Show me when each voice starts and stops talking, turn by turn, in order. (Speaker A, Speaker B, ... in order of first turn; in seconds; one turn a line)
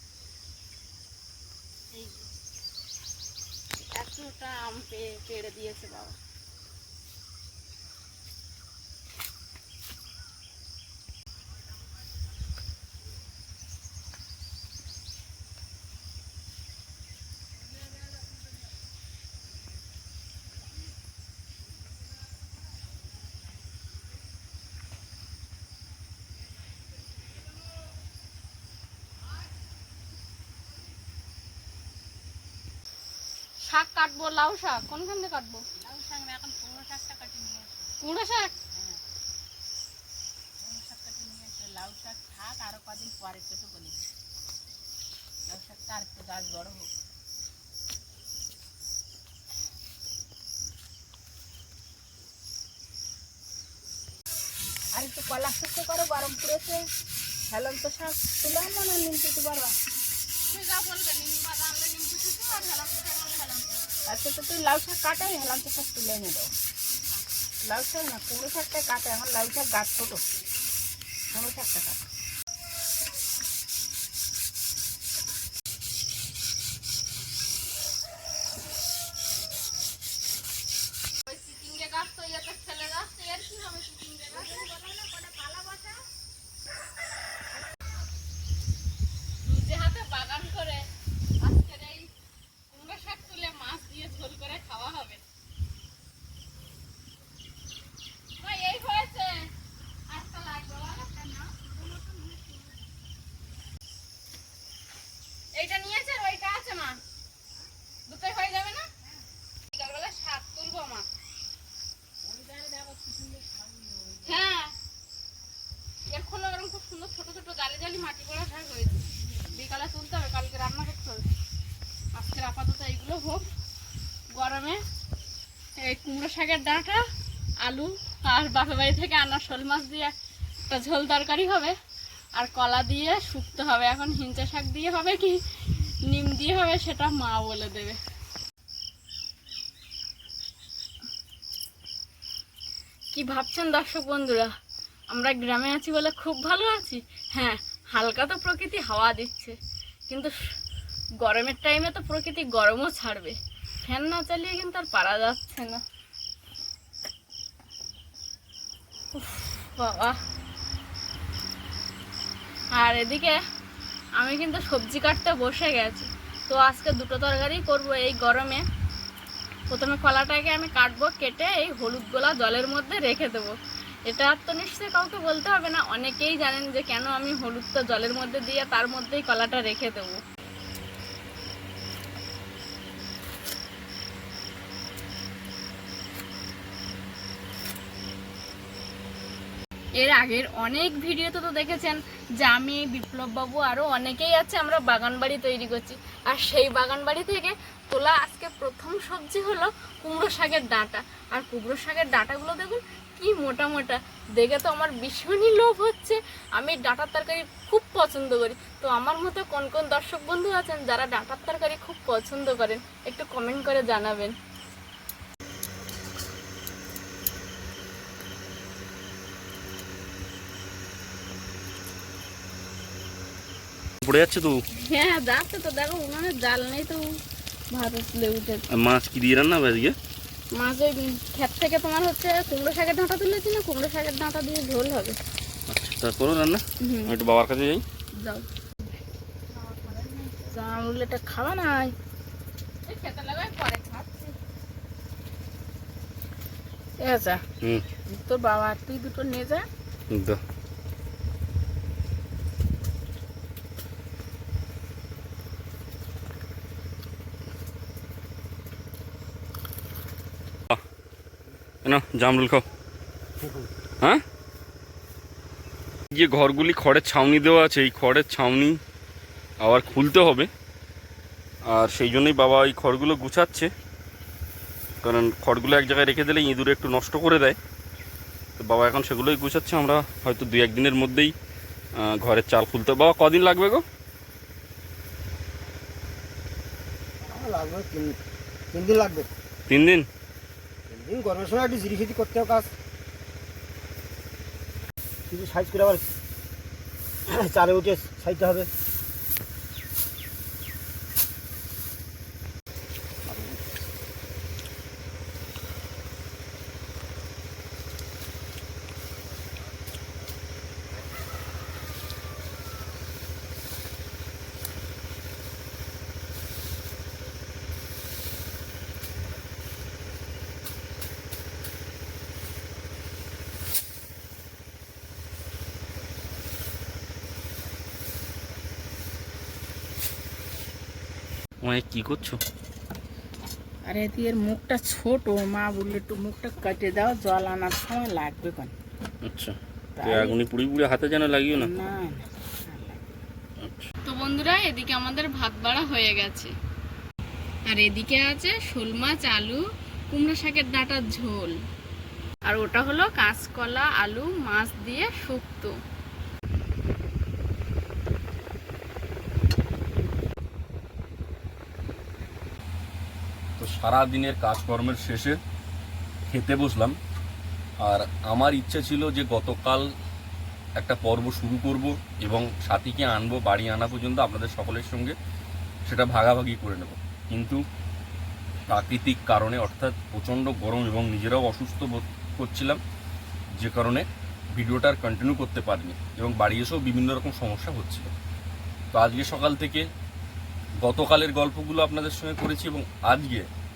Speaker A: 1.9-2.3
Speaker A: 3.9-6.2
Speaker A: 33.6-35.6
Speaker B: 35.8-37.9
Speaker A: 38.0-38.5
Speaker B: 38.7-39.0
Speaker B: 40.6-44.0
Speaker B: 45.5-46.9
Speaker B: 54.9-56.8
Speaker B: 57.5-59.7
Speaker A: 60.5-63.8
Speaker B: 64.1-66.5
Speaker B: 67.6-70.2
Speaker B: 71.3-72.0
Speaker A: 81.3-84.7
Speaker B: 84.3-86.0
Speaker A: 89.4-90.9
Speaker A: 91.4-92.1
Speaker A: 92.7-95.2
Speaker A: 98.4-99.5
Speaker A: 100.1-101.4
Speaker B: 101.1-102.7
Speaker A: 102.1-102.3
Speaker A: 105.5-107.0
Speaker A: 108.1-108.8
Speaker A: 109.7-111.0
Speaker B: 112.2-114.4
Speaker A: 114.2-114.7
Speaker A: 116.1-121.2
Speaker A: 122.1-123.4
Speaker A: 124.3-124.8
Speaker A: 125.8-127.0
Speaker A: 127.6-130.1
Speaker A: 130.7-131.8
Speaker A: 132.4-135.4
Speaker A: 136.1-138.0
Speaker A: 143.1-144.5
Speaker A: 145.1-149.6
Speaker A: 150.1-150.3
Speaker A: 151.2-155.8
Speaker A: 159.1-160.2
Speaker A: 162.7-163.4
Speaker A: 164.2-168.6
Speaker A: 169.7-173.6
Speaker A: 174.1-180.2
Speaker A: 190.0-214.3
Speaker C: 224.0-224.6
Speaker A: 224.8-227.1
Speaker A: 227.7-228.6
Speaker C: 228.7-229.9
Speaker A: 230.5-235.2
Speaker C: 235.7-237.8
Speaker A: 238.2-238.4
Speaker A: 239.6-240.6
Speaker B: 239.7-241.9
Speaker A: 242.8-244.3
Speaker B: 247.0-247.4
Speaker B: 248.1-249.6
Speaker C: 250.1-250.4
Speaker C: 261.8-262.6
Speaker D: 263.4-263.7
Speaker C: 266.1-268.8
Speaker C: 269.6-270.5
Speaker C: 271.7-273.7
Speaker C: 275.0-277.6
Speaker C: 278.6-281.3
Speaker C: 282.0-283.8
Speaker D: 287.3-288.1
Speaker D: 288.7-289.3
Speaker C: 289.7-290.1
Speaker D: 290.9-292.7
Speaker D: 295.3-296.1
Speaker D: 297.3-298.7
Speaker D: 303.2-303.7
Speaker C: 331.6-332.4
Speaker B: 333.9-338.7
Speaker C: 339.2-341.7
Speaker B: 340.0-340.4
Speaker B: 341.5-343.1
Speaker C: 343.6-343.9
Speaker A: 344.0-346.5
Speaker A: 347.7-351.5
Speaker A: 352.4-355.8
Speaker C: 363.6-365.4
Speaker C: 366.3-366.9
Speaker C: 367.8-369.9
Speaker C: 370.8-375.1
Speaker C: 375.9-377.6
Speaker C: 378.7-382.8
Speaker C: 383.6-388.1
Speaker C: 388.9-389.9
Speaker C: 390.8-393.4